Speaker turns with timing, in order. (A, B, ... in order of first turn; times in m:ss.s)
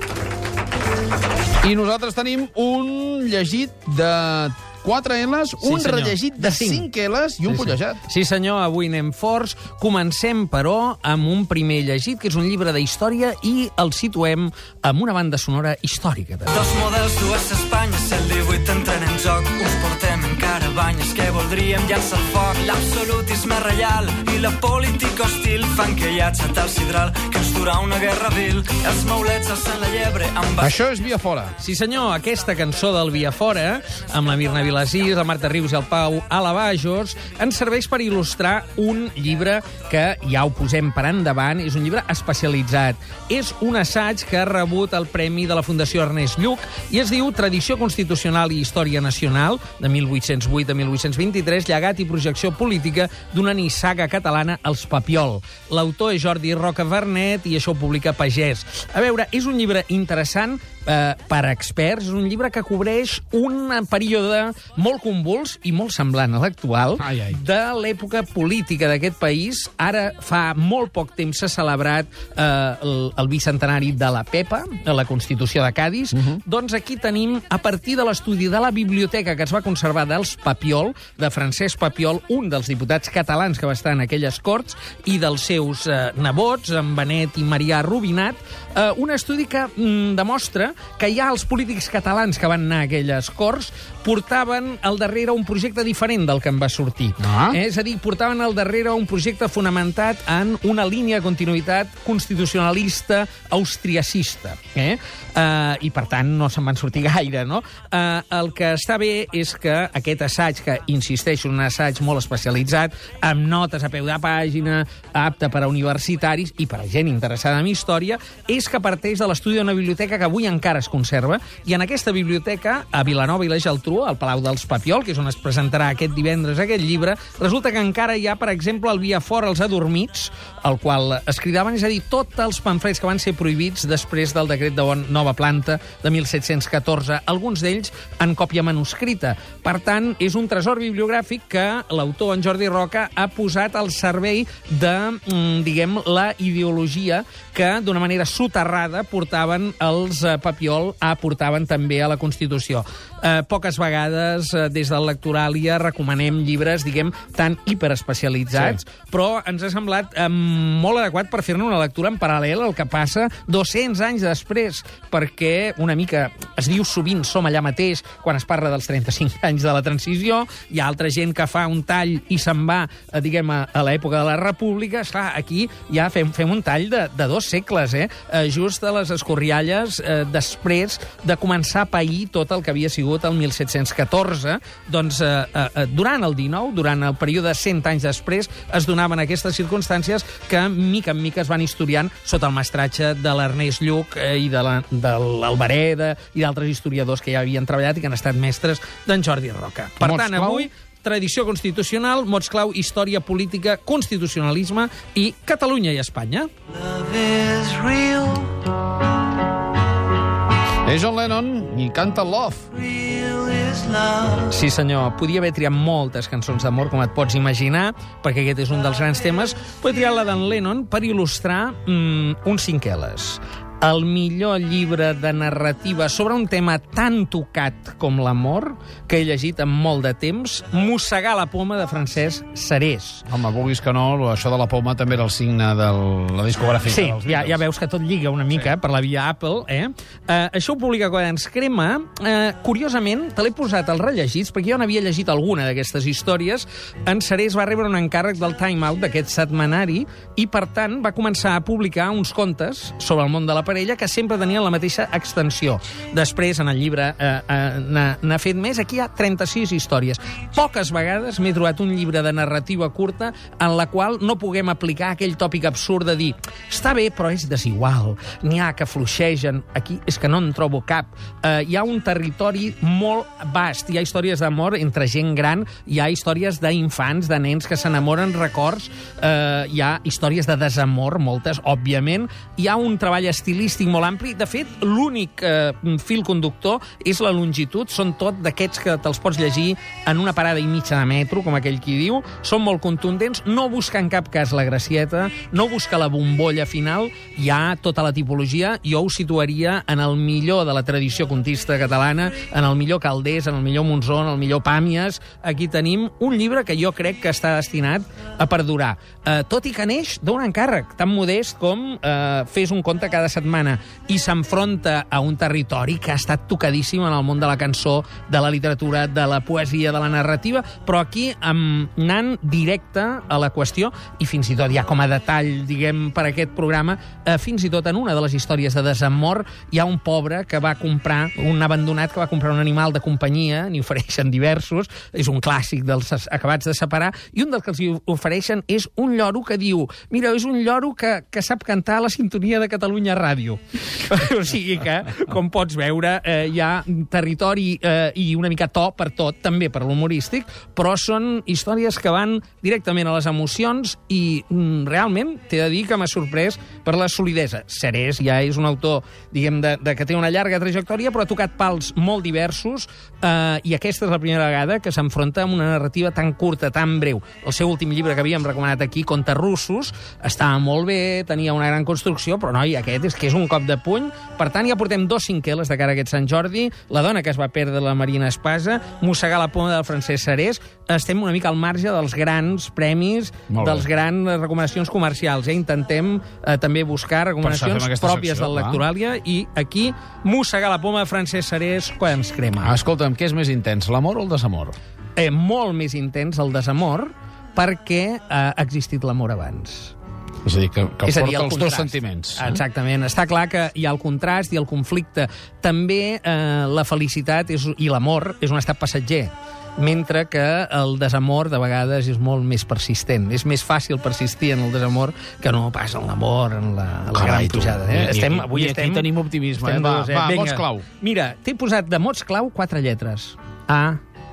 0:01.6-0:08.0 A
0:05.6-0:06.9 B
0:07.5-0:16.7 B
0:16.5-0:30.8 C
0:30.6-0:31.6 A
0:31.6-3:26.5 B
1:07.0-1:07.3 A
1:37.2-1:37.6 A
3:20.0-3:20.7 A
3:26.8-3:28.6 C
3:30.8-3:32.8 A
3:32.9-3:34.4 C
3:34.4-3:53.3 B
3:53.3-3:57.6 A
3:56.9-6:32.8 B
6:23.5-6:23.8 A
6:27.4-6:28.8 A
6:32.6-6:34.8 A
6:35.2-6:40.0 B
6:40.4-6:42.6 A
6:41.0-7:04.0 B
6:57.1-7:00.8 A